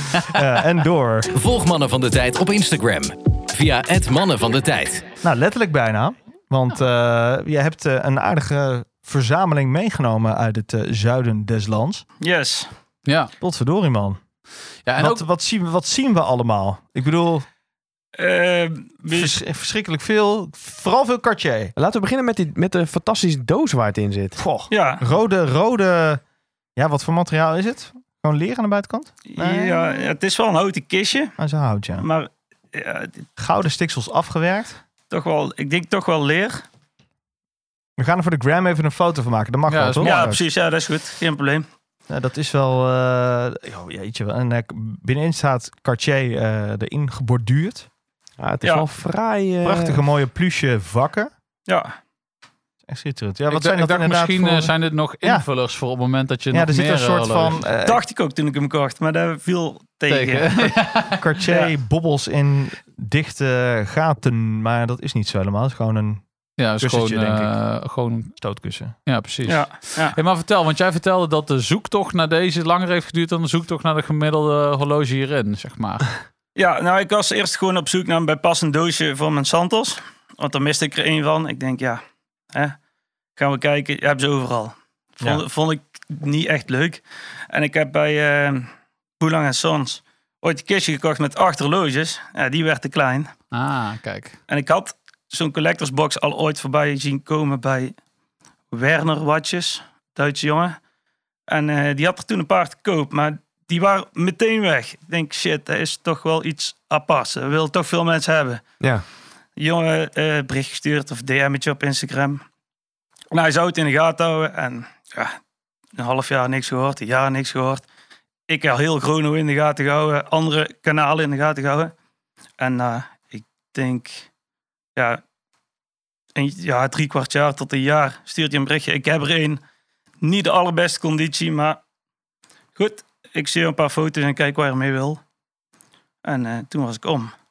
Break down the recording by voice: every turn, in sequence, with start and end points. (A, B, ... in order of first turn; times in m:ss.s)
0:00.3-0:01.3 A
0:01.3-0:05.1 B
0:05.2-0:12.0 A
0:12.2-0:12.7 C
0:13.1-0:13.3 D
0:13.4-0:14.2 A
0:14.9-0:15.2 D
0:15.0-0:17.5 A
0:18.2-0:19.4 C
0:19.1-0:21.7 A
0:21.8-0:24.4 E
0:24.4-0:26.2 A
0:24.7-0:25.0 C
0:26.8-0:30.0 A
0:29.3-0:31.4 C
0:31.4-0:32.1 A
0:32.0-0:33.3 C
0:33.4-0:34.8 A
0:35.1-0:36.6 C
0:38.0-0:40.4 A
0:39.7-0:40.3 D
0:40.0-0:41.6 C
0:42.1-0:47.9 A
0:48.4-0:50.0 E
0:49.6-0:51.3 A
0:51.7-0:51.9 C
0:52.9-0:55.5 A
0:53.5-0:57.6 D
0:56.5-0:58.0 A
0:57.8-1:00.7 C
1:00.1-1:01.2 D
1:01.1-1:06.2 A
1:06.6-1:08.4 D
1:06.8-1:07.6 A
1:08.4-1:09.0 A
1:09.1-1:16.1 D
1:09.5-1:10.2 C
1:16.6-1:22.0 C
1:23.4-1:28.7 C
1:29.2-1:33.3 C
1:33.5-1:34.4 D
1:34.5-1:37.9 C
1:38.7-1:40.8 C
1:41.5-1:48.6 C
1:49.6-1:52.4 C
1:53.3-1:55.4 C
1:56.0-1:57.8 C
1:58.5-2:01.9 C
2:02.6-2:04.3 C
2:05.0-2:05.2 C
2:06.4-2:09.6 C
2:10.2-2:11.8 C
2:12.8-2:15.2 C
2:16.2-2:17.3 C